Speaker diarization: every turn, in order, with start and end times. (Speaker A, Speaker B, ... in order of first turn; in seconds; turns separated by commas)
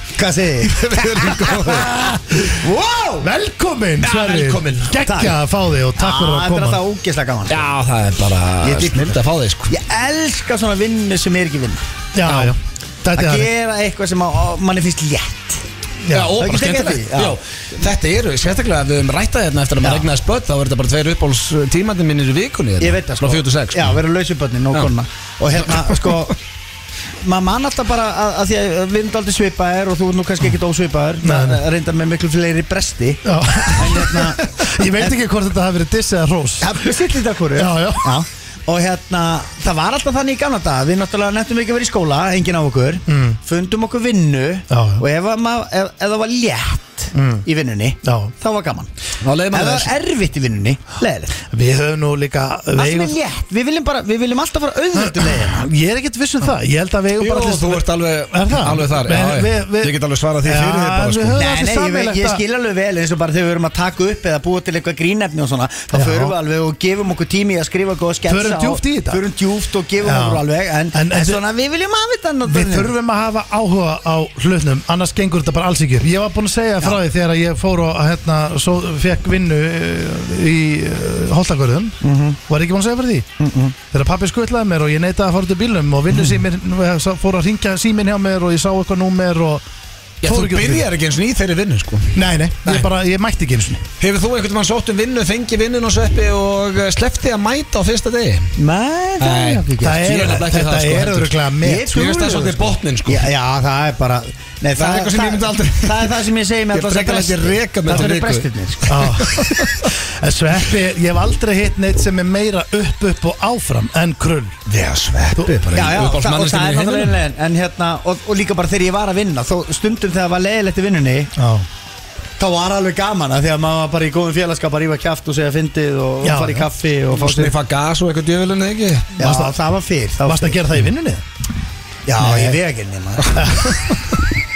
Speaker A: 0.1-1.8, Speaker B: 0.6-2.1, Speaker C: 1.9-2.4, Speaker A: 2.4-3.3, Speaker C: 3.2-6.8, Speaker B: 4.0-5.0, Speaker A: 5.0-5.3, Speaker A: 6.0-7.7, Speaker B: 7.5-9.7, Speaker A: 8.6-9.2, Speaker A: 9.7-11.8, Speaker C: 12.1-13.5, Speaker B: 12.2-12.5, Speaker A: 13.1-15.6, Speaker C: 16.1-16.4, Speaker B: 16.1-24.0, Speaker A: 16.4-17.4, Speaker A: 22.8-26.4, Speaker B: 25.7-26.1, Speaker A: 27.2-34.4, Speaker C: 31.2-31.6, Speaker C: 33.2-36.9, Speaker A: 36.6-48.9, Speaker C: 37.5-38.2, Speaker C: 43.1-43.4, Speaker C: 44.7-45.0, Speaker C: 47.1-47.5, Speaker C: 48.0-48.3, Speaker B: 49.2-49.9, Speaker A: 49.5-51.3, Speaker C: 51.5-53.2, Speaker A: 52.8-55.6, Speaker C: 54.9-62.4, Speaker B: 57.2-61.4, Speaker A: 61.3-72.9, Speaker C: 65.9-66.3, Speaker C: 68.3-69.2, Speaker C: 70.0-71.4, Speaker C: 72.4-83.3, Speaker A: 82.0-82.4, Speaker A: 83.4-83.7, Speaker C: 83.9-89.6, Speaker B: 90.2-92.9, Speaker C: 90.2-90.9, Speaker C: 92.1-93.8, Speaker B: 94.0-98.5, Speaker A: 98.5-100.1, Speaker B: 99.2-103.3, Speaker C: 99.8-102.0, Speaker A: 101.6-109.0, Speaker B: 104.8-109.9, Speaker C: 108.9-114.6, Speaker B: 114.7-117.2, Speaker C: 115.3-115.6, Speaker A: 115.7-121.3, Speaker C: 121.3-121.7, Speaker A: 122.4-127.5, Speaker C: 126.2-126.7, Speaker B: 127.1-129.1, Speaker C: 129.2-129.6, Speaker A: 129.2-130.6, Speaker C: 130.2-131.2, Speaker A: 132.1-133.4, Speaker C: 132.2-132.6, Speaker B: 133.3-134.2, Speaker C: 133.3-133.8